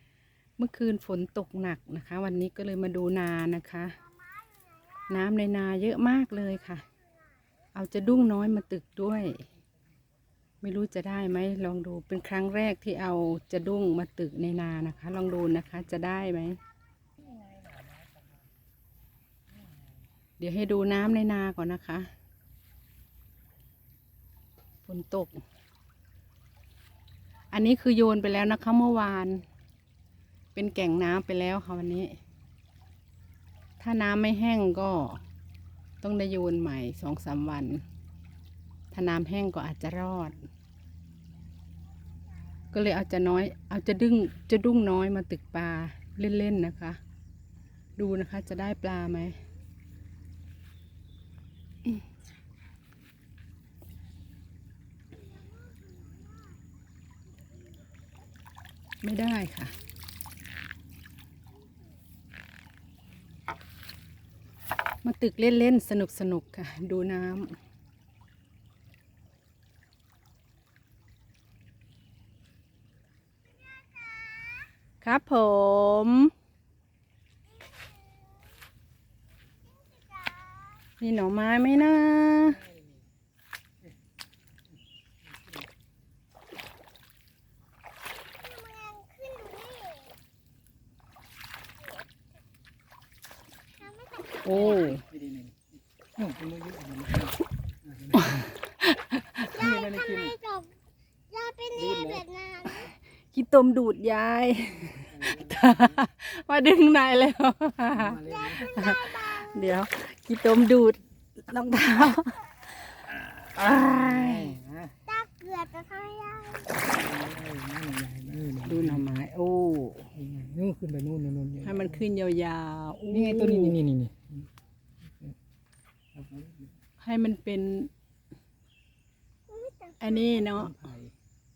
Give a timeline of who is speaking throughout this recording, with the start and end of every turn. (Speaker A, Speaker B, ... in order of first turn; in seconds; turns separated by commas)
Speaker A: 0.6-4.0, Speaker A: 5.0-6.8, Speaker A: 7.7-9.4, Speaker A: 10.6-16.6, Speaker B: 17.4-18.0, Speaker A: 20.4-22.1, Speaker A: 24.9-25.4, Speaker A: 27.5-29.4, Speaker A: 30.5-32.1, Speaker A: 33.8-35.2, Speaker A: 36.0-37.8, Speaker A: 38.9-40.4, Speaker A: 42.7-47.0, Speaker A: 48.0-49.4, Speaker A: 59.0-59.7, Speaker A: 65.0-67.6, Speaker C: 74.0-74.7, Speaker A: 75.0-76.3, Speaker C: 77.7-78.5, Speaker C: 79.7-80.8, Speaker A: 81.0-82.6, Speaker B: 82.5-83.0, Speaker B: 85.2-85.7, Speaker C: 88.4-90.2, Speaker C: 93.8-94.6, Speaker A: 94.4-95.0, Speaker B: 94.5-95.6, Speaker B: 96.2-98.5, Speaker A: 98.2-99.6, Speaker B: 99.5-100.4, Speaker C: 99.5-100.7, Speaker C: 101.3-102.9, Speaker B: 101.8-102.3, Speaker A: 102.8-112.5, Speaker B: 104.9-106.0, Speaker B: 107.9-108.8, Speaker C: 109.0-109.3, Speaker A: 113.5-114.5, Speaker B: 113.5-115.0, Speaker C: 115.1-116.8, Speaker B: 116.8-119.2, Speaker A: 118.6-120.1, Speaker B: 120.1-122.0, Speaker A: 121.6-123.8, Speaker B: 123.1-124.5, Speaker B: 125.0-125.3, Speaker B: 126.1-126.7, Speaker A: 127.0-127.9, Speaker C: 129.5-130.1, Speaker A: 130.0-130.8, Speaker B: 130.4-131.1